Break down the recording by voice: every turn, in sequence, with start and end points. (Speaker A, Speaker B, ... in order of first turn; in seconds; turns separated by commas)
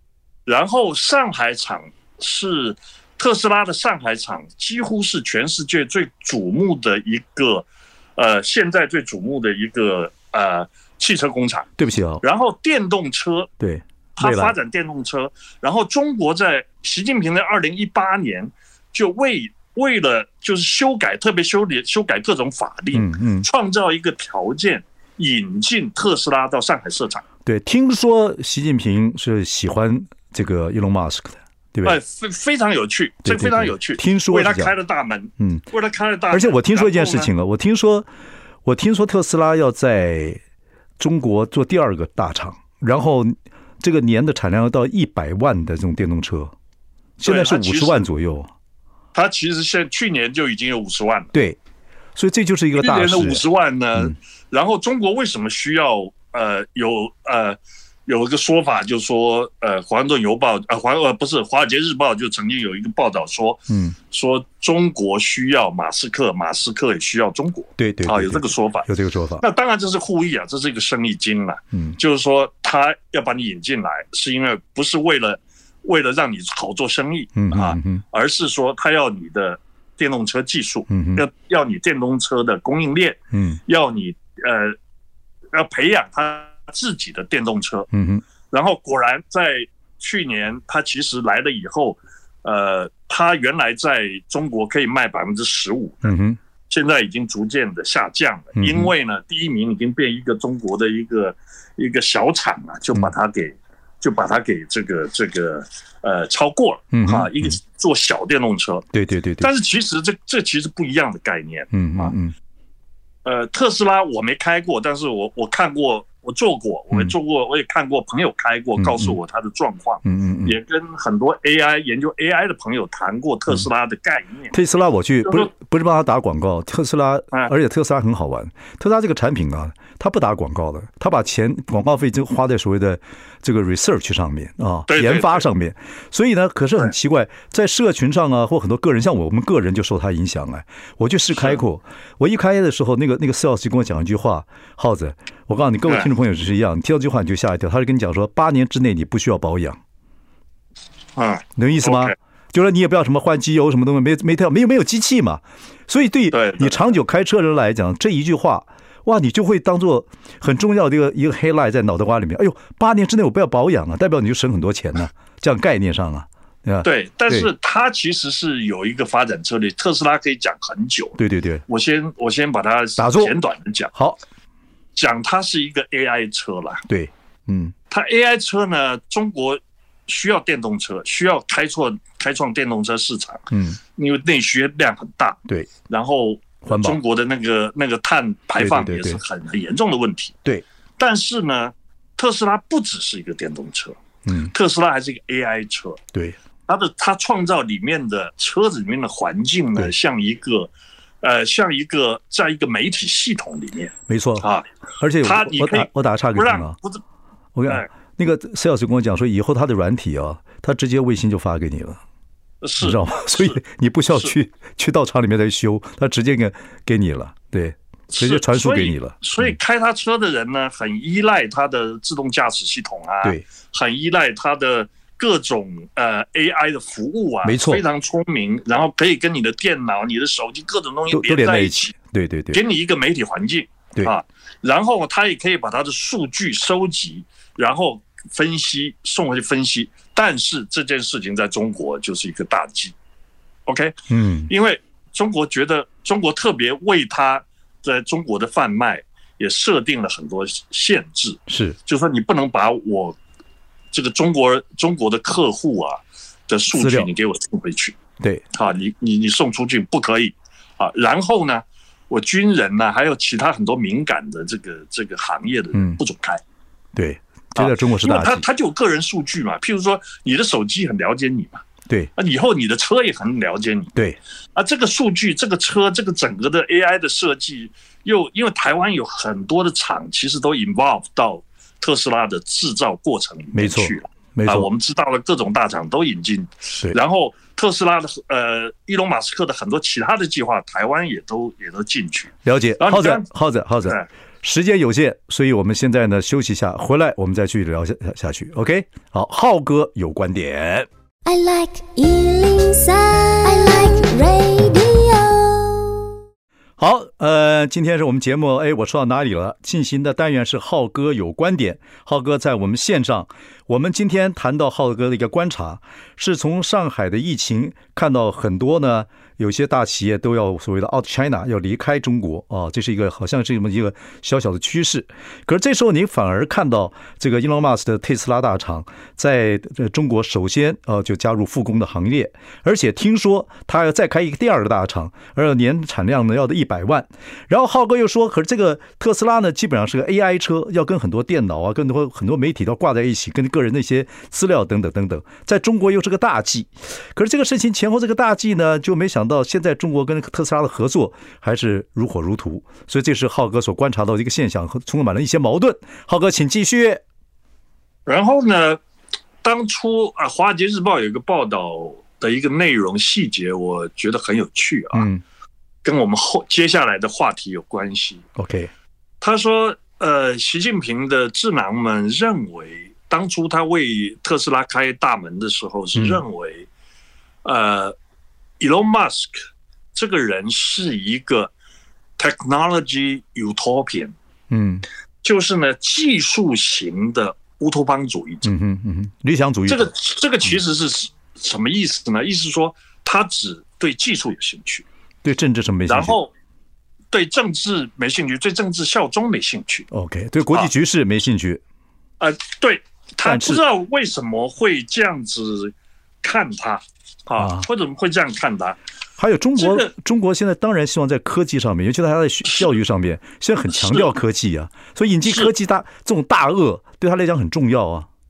Speaker A: 0.5-11.7, Speaker B: 11.8-12.2, Speaker A: 12.2-13.5, Speaker B: 13.6-14.6, Speaker A: 14.2-27.2, Speaker B: 22.9-23.5, Speaker B: 27.4-32.0, Speaker A: 31.8-37.3, Speaker B: 33.2-34.7, Speaker B: 35.4-35.6, Speaker B: 36.3-38.1, Speaker B: 38.6-40.4, Speaker B: 41.0-46.5, Speaker B: 47.2-48.5, Speaker A: 47.2-48.1, Speaker A: 49.1-51.3, Speaker B: 51.3-51.6, Speaker B: 52.1-53.4, Speaker A: 52.8-84.8, Speaker B: 63.7-63.9, Speaker B: 67.8-69.4, Speaker B: 71.7-72.0, Speaker B: 77.3-78.0, Speaker B: 80.9-81.2, Speaker B: 83.3-83.6, Speaker A: 85.5-87.9, Speaker B: 87.9-88.2, Speaker A: 88.5-96.1, Speaker B: 96.0-96.4, Speaker A: 96.7-108.8, Speaker B: 98.5-98.9, Speaker B: 106.9-107.5, Speaker B: 108.9-109.5, Speaker A: 109.4-112.1, Speaker B: 111.7-112.3, Speaker A: 113.2-124.5, Speaker B: 118.8-119.1, Speaker B: 120.0-120.5, Speaker B: 124.5-149.8, Speaker A: 134.9-135.4, Speaker A: 151.2-152.1, Speaker B: 151.6-167.5, Speaker A: 156.3-156.9, Speaker A: 166.8-173.9, Speaker B: 171.2-171.6, Speaker B: 173.0-173.3, Speaker B: 173.9-174.2, Speaker A: 174.9-176.8, Speaker B: 176.9-177.7, Speaker A: 177.9-190.4, Speaker B: 183.5-183.8, Speaker B: 186.7-187.0, Speaker B: 188.6-189.2, Speaker A: 191.0-196.0, Speaker B: 194.2-194.5, Speaker A: 196.7-200.7, Speaker A: 201.2-204.7, Speaker B: 204.1-204.5, Speaker B: 205.0-206.8, Speaker A: 205.2-207.0, Speaker B: 207.5-212.0, Speaker A: 212.6-213.6, Speaker B: 212.8-219.5, Speaker A: 218.1-231.9, Speaker B: 227.4-227.8, Speaker B: 231.1-232.6, Speaker A: 232.5-242.9, Speaker A: 243.7-253.2, Speaker B: 244.1-244.5, Speaker B: 251.5-251.8, Speaker A: 253.9-258.0, Speaker B: 256.7-257.1, Speaker A: 258.5-266.4, Speaker B: 265.7-266.0, Speaker B: 266.9-268.4, Speaker A: 267.6-271.6, Speaker A: 272.1-273.9, Speaker A: 274.5-293.3, Speaker B: 283.5-284.7, Speaker B: 292.4-300.9, Speaker C: 301.2-306.1, Speaker B: 306.8-357.0, Speaker A: 358.1-358.8, Speaker A: 359.4-365.1, Speaker B: 364.9-365.2, Speaker A: 365.8-368.2, Speaker B: 368.4-368.7, Speaker A: 369.2-376.7, Speaker B: 375.9-376.2, Speaker A: 377.4-377.9, Speaker A: 378.6-379.4, Speaker A: 379.9-381.5, Speaker A: 382.2-384.1, Speaker B: 384.5-384.9, Speaker A: 385.2-388.5, Speaker B: 388.4-389.9, Speaker A: 389.7-394.9, Speaker B: 395.2-396.1, Speaker A: 395.9-396.3, Speaker A: 397.1-399.9, Speaker B: 399.9-401.6, Speaker A: 402.2-408.8, Speaker B: 403.2-403.6, Speaker B: 407.4-407.6, Speaker B: 409.2-418.1, Speaker A: 409.6-409.9, Speaker A: 413.7-414.1, Speaker A: 415.2-415.5